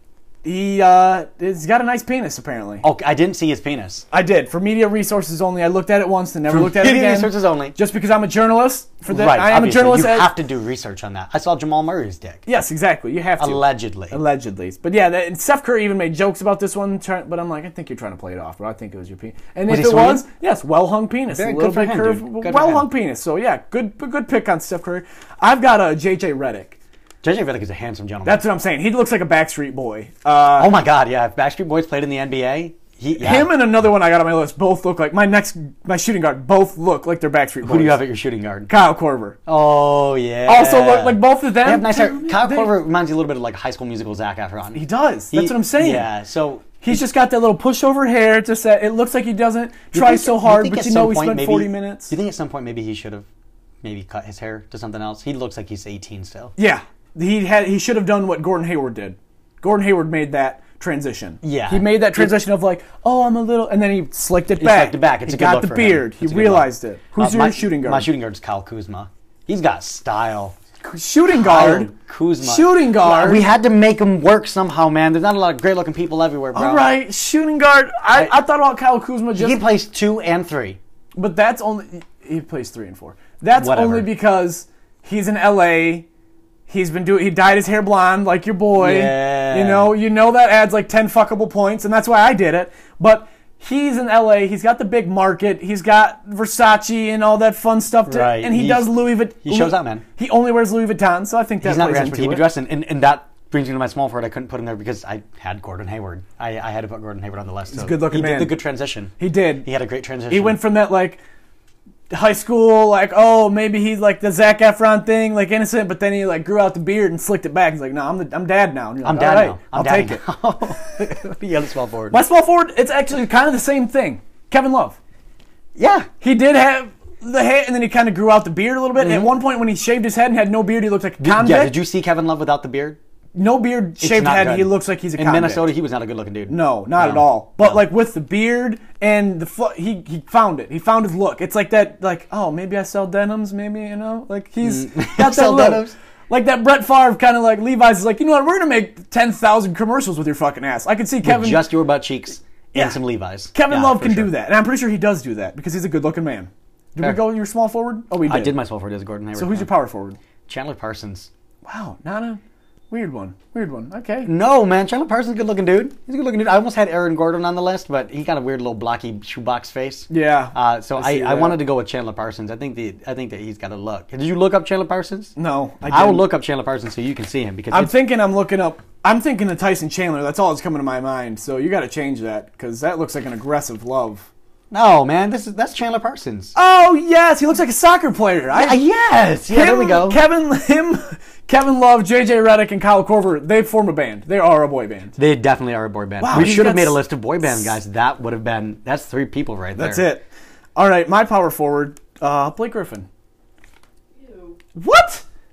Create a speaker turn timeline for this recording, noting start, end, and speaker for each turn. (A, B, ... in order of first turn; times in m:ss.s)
0:00.4-0:02.8 A
0:02.8-0:04.0 B
0:04.1-0:10.3 A
0:06.5-0:07.7 B
0:09.1-0:12.4 B
0:12.5-0:26.8 A
0:13.4-0:14.2 B
0:19.7-0:20.2 B
0:21.3-0:22.9 B
0:27.2-0:28.4 B
0:28.2-0:30.8 A
0:30.6-0:33.5 B
0:33.2-0:38.0 A
0:37.6-0:38.7 B
0:38.7-0:39.4 A
0:39.5-0:47.0 B
0:40.5-0:42.7 A
0:44.7-0:46.1 A
0:46.8-0:52.1 A
0:49.9-0:53.3 B
0:53.8-0:56.5 B
0:56.6-1:08.1 A
1:01.4-1:02.4 B
1:04.6-1:10.6 B
1:10.8-1:13.4 A
1:11.3-1:16.9 B
1:16.6-1:19.6 A
1:19.4-1:20.8 B
1:21.2-1:26.1 A
1:23.6-1:24.1 B
1:26.7-1:42.4 A
1:28.8-1:30.0 B
1:38.1-1:40.0 B
1:41.6-1:50.6 B
1:47.7-1:48.5 A
1:49.2-1:49.7 A
1:50.3-1:51.2 A
1:52.1-2:00.2 A
1:59.0-2:02.2 B
2:02.1-2:05.0 A
2:05.8-2:06.1 B
2:06.2-2:11.8 A
2:09.0-2:09.3 B
2:11.2-2:13.0 B
2:13.4-2:15.7 A
2:14.0-2:17.8 B
2:16.5-2:31.7 A
2:24.6-2:26.0 B
2:31.2-2:34.3 B
2:32.7-2:33.0 A
2:33.5-2:38.6 A
2:38.2-2:39.7 B
2:39.4-2:40.2 A
2:40.5-2:41.3 B
2:41.6-2:42.4 A
2:42.9-2:44.3 A
2:44.2-2:55.3 B
2:50.1-2:51.6 A
2:55.4-2:56.2 A
2:55.9-2:58.0 B
2:57.7-3:04.3 A
3:04.7-3:06.5 B
3:06.6-3:08.8 A
3:08.5-3:10.2 B
3:09.5-3:15.2 A
3:15.2-3:20.1 B
3:16.2-3:17.7 A
3:19.8-3:23.1 A
3:24.8-3:25.2 A